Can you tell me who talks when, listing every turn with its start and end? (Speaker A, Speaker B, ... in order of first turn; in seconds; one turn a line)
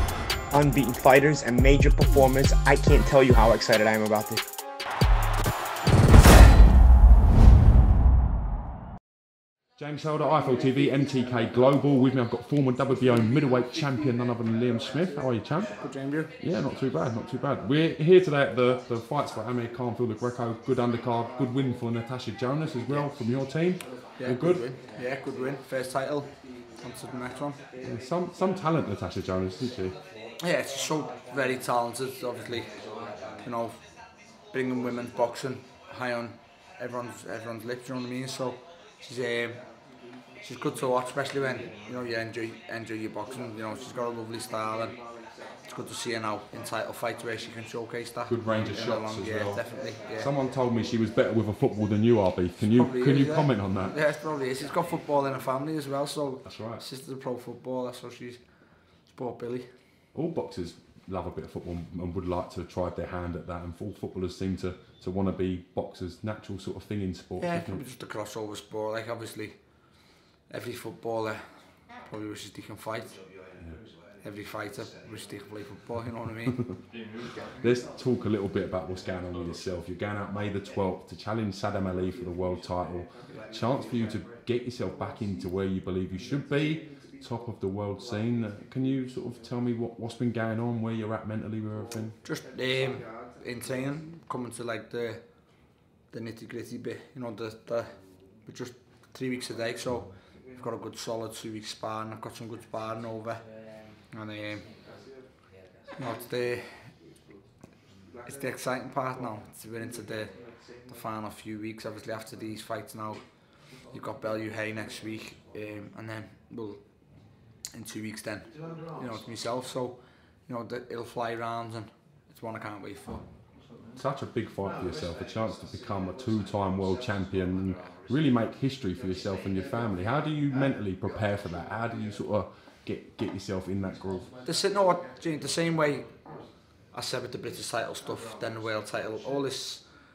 Speaker A: 0.5-4.4
Speaker B: 9.8-15.7
Speaker C: 15.8-16.3
Speaker B: 16.4-24.6
Speaker C: 24.2-27.6
Speaker B: 27.8-29.9
Speaker C: 30.4-32.7
Speaker C: 33.4-33.8
Speaker C: 34.5-39.6
Speaker C: 40.4-45.0
Speaker C: 45.7-50.3
Speaker B: 48.3-53.9
Speaker C: 52.7-58.4
Speaker B: 56.4-56.8
Speaker C: 59.1-59.7
Speaker B: 60.1-67.8
Speaker C: 67.4-69.5
Speaker C: 70.5-71.5
Speaker C: 72.0-73.2
Speaker C: 74.2-76.6
Speaker B: 77.6-92.2
Speaker C: 92.2-95.2
Speaker C: 96.1-103.5
Speaker C: 104.1-104.7
Speaker C: 106.0-106.8
Speaker C: 108.2-110.3
Speaker C: 110.9-113.2
Speaker C: 113.9-116.8
Speaker C: 117.7-123.2
Speaker B: 124.0-134.3
Speaker C: 134.4-136.1
Speaker C: 136.9-139.8